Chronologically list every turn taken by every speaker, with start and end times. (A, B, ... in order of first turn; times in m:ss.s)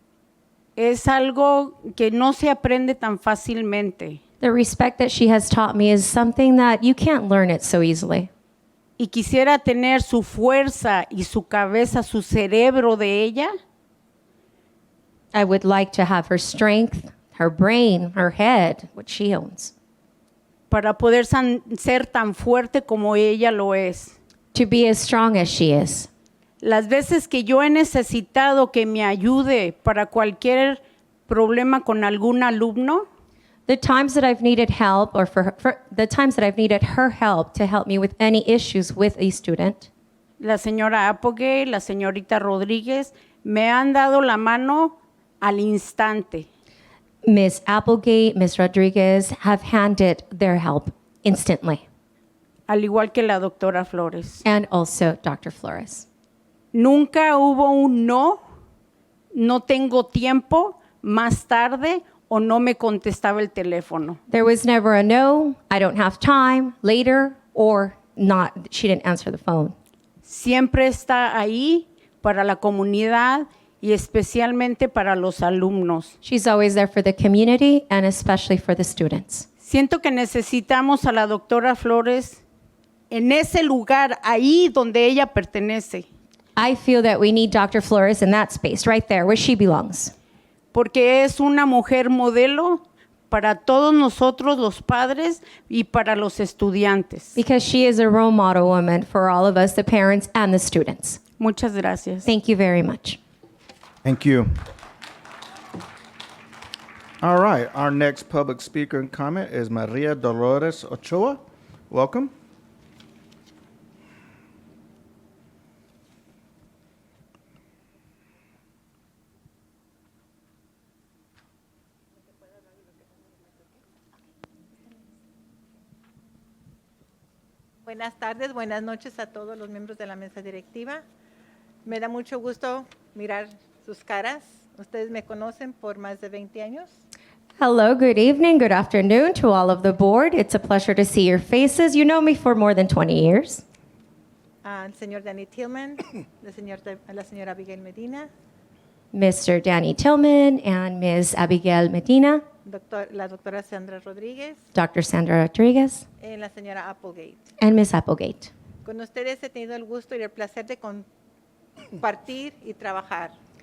0:00.8-0:04.2 A
0:04.4-0:08.3 B
0:09.0-0:13.5 A
0:15.3-0:19.7 B
0:20.7-0:24.2 A
0:24.5-0:26.1 B
0:26.6-0:33.0 A
0:33.7-0:39.9 B
0:40.4-0:46.5 A
0:47.2-0:51.8 B
0:52.7-0:54.4 A
0:54.4-0:56.1 B
0:56.7-0:58.4 A
0:59.3-1:04.2 A
1:04.3-1:09.8 B
1:10.2-1:16.2 A
1:16.2-1:19.5 B
1:19.6-1:22.4 A
1:23.1-1:26.1 A
1:26.6-1:30.1 B
1:30.7-1:37.4 A
1:37.4-1:41.2 B
1:41.4-1:42.3 A
1:42.2-1:43.2 B
1:44.0-1:44.6 C
1:47.2-1:52.3 C
2:07.9-2:11.0 D
2:11.9-2:16.9 D
2:17.6-2:23.6 B
2:24.6-2:28.3 D
2:29.1-2:32.4 B
2:32.7-2:34.6 D
2:34.7-2:36.0 B
2:36.2-2:37.4 D
2:37.6-2:38.5 B
2:38.8-2:41.0 D
2:42.0-2:43.3 D